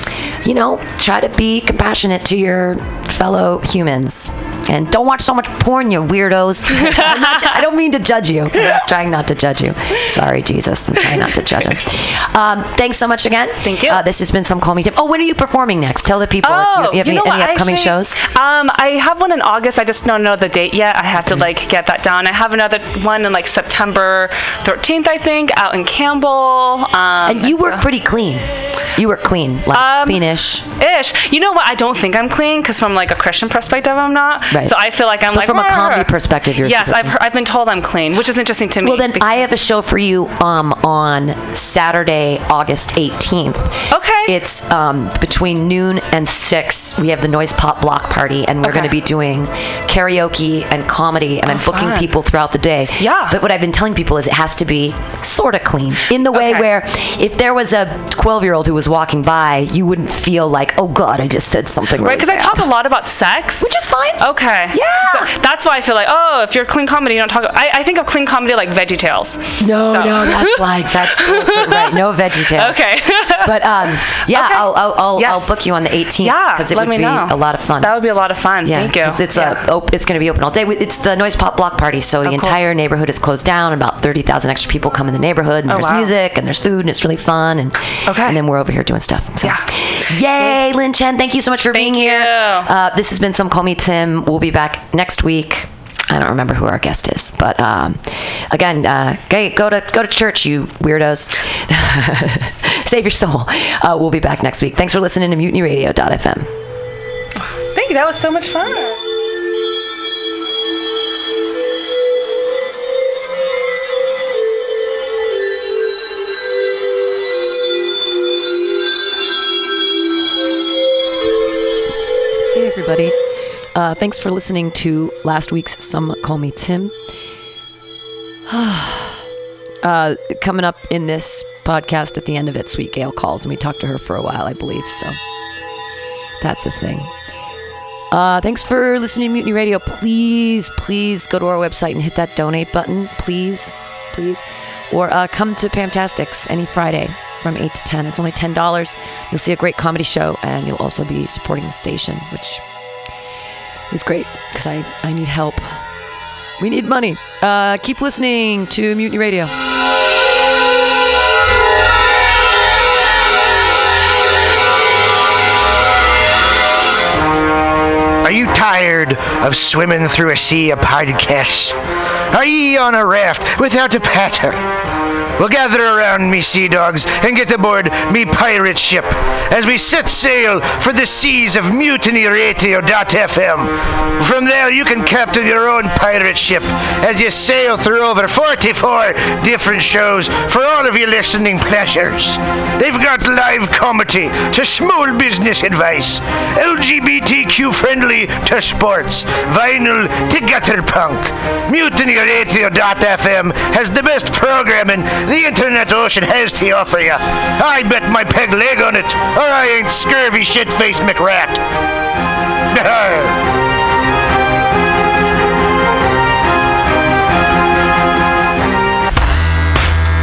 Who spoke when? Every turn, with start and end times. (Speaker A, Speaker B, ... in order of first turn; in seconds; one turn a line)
Speaker A: 0.4-18.2
Speaker B: 6.7-7.5
Speaker B: 13.6-14.0
Speaker B: 16.4-27.9
Speaker A: 21.2-21.5
Speaker A: 27.2-30.6
Speaker B: 29.7-39.5
Speaker A: 34.5-34.8
Speaker A: 35.3-37.2
Speaker A: 38.8-62.7
Speaker B: 43.9-44.3
Speaker B: 48.6-48.9
Speaker B: 51.5-52.1
Speaker B: 53.0-53.4
Speaker B: 56.3-56.6
Speaker B: 62.0-72.0
Speaker A: 63.6-65.3
Speaker A: 69.6-78.0
Speaker B: 72.5-75.6
Speaker B: 76.2-79.6
Speaker A: 78.6-106.5
Speaker B: 82.2-82.6
Speaker B: 85.7-86.1
Speaker B: 88.0-88.4
Speaker B: 89.4-89.7
Speaker B: 91.7-92.7
Speaker B: 107.7-109.0
Speaker A: 122.3-123.2
Speaker A: 123.7-126.9
Speaker A: 128.5-129.2
Speaker A: 129.8-135.2
Speaker A: 136.4-137.1
Speaker A: 138.1-152.6
Speaker A: 153.9-155.8
Speaker A: 156.6-159.5
Speaker C: 168.2-171.7
Speaker C: 172.3-174.6
Speaker C: 175.4-211.6
Speaker C: 212.7-213.4